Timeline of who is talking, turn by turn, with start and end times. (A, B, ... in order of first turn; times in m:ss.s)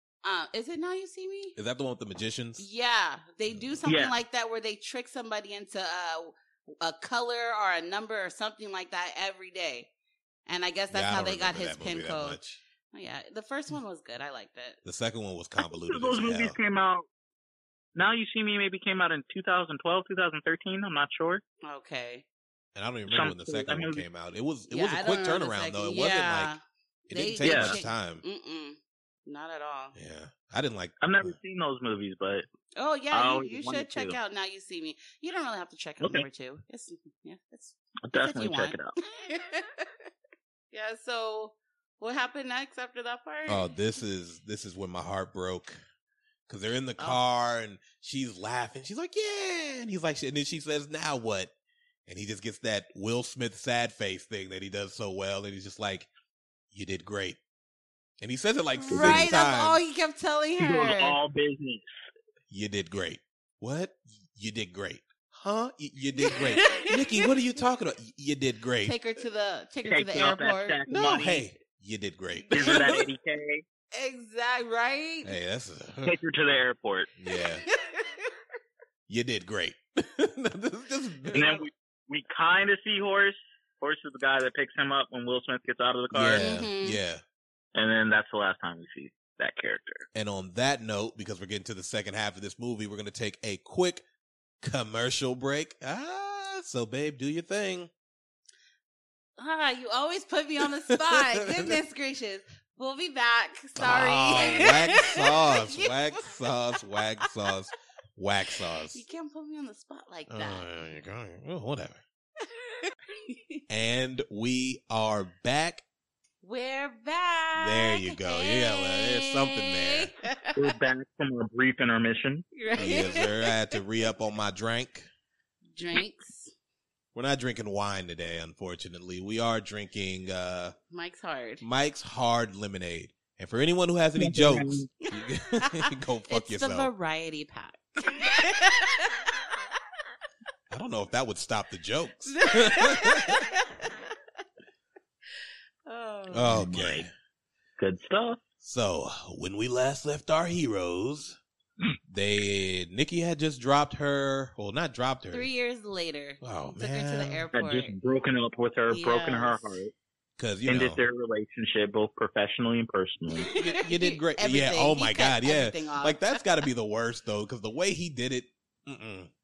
0:00.2-0:01.6 A
0:01.6-0:02.6 B
0:02.6-0:09.9 A
0:03.8-0:04.1 C
0:10.5-0:12.4 A
0:10.9-0:12.6 B
0:12.9-0:14.8 A
0:14.8-0:16.6 B
0:15.8-0:17.0 C
0:17.9-0:21.4 C
0:21.6-0:22.2 A
0:22.7-0:26.5 B
0:23.1-0:24.0 C
0:24.7-0:30.0 A
0:27.1-0:28.2 B
0:27.4-0:27.8 C
0:29.9-0:31.4 B
0:31.0-0:32.5 C
0:32.8-0:40.1 A
0:33.1-0:34.2 C
0:38.1-0:38.9 C
0:40.7-0:43.7 A
0:43.5-0:45.8 B
0:46.5-0:51.5 B
0:52.0-0:56.1 B
0:56.7-0:57.4 B
0:58.2-0:59.8 B
0:58.9-1:01.2 A
0:58.9-0:59.3 C
1:00.6-1:01.9 C
1:02.5-1:08.9 B
1:06.3-1:07.0 A
1:08.8-1:10.8 A
1:09.8-1:11.4 C
1:10.9-1:13.0 B
1:12.5-1:13.6 C
1:13.9-1:15.3 A
1:15.2-1:16.2 B
1:16.0-1:17.1 C
1:17.2-1:17.6 B
1:17.8-1:18.3 A
1:19.1-1:21.4 B
1:21.3-1:21.6 A
1:21.3-1:26.4 C
1:26.1-1:27.2 B
1:26.3-1:27.0 A
1:27.7-1:30.0 C
1:30.1-1:34.0 B
1:34.6-1:37.9 B
1:39.4-1:46.5 A
1:40.6-1:41.8 B
1:43.8-1:49.0 B
1:48.9-1:50.7 A
1:50.3-1:52.0 B
1:52.4-1:53.6 A
1:53.7-1:55.8 B
1:56.4-2:00.8 A
1:57.6-2:00.1 B
2:00.5-2:02.4 C
2:02.6-2:03.5 A
2:02.8-2:05.1 B
2:05.7-2:06.5 A
2:07.1-2:10.8 B
2:10.9-2:11.6 A
2:11.6-2:16.9 B
2:14.2-2:14.9 C
2:15.1-2:15.8 A
2:16.3-2:19.3 A
2:20.7-2:23.4 B
2:22.3-2:24.0 A
2:25.8-2:26.7 A
2:26.3-2:27.1 B
2:26.4-2:27.1 C
2:27.8-2:28.4 C
2:28.6-2:31.4 B
2:32.1-2:35.5 B
2:35.3-2:38.0 A
2:36.4-2:37.4 B
2:37.5-2:39.9 C
2:38.9-2:39.7 A
2:40.4-2:41.0 B
2:40.7-2:43.5 C
2:43.4-2:46.4 A
2:43.5-2:49.3 B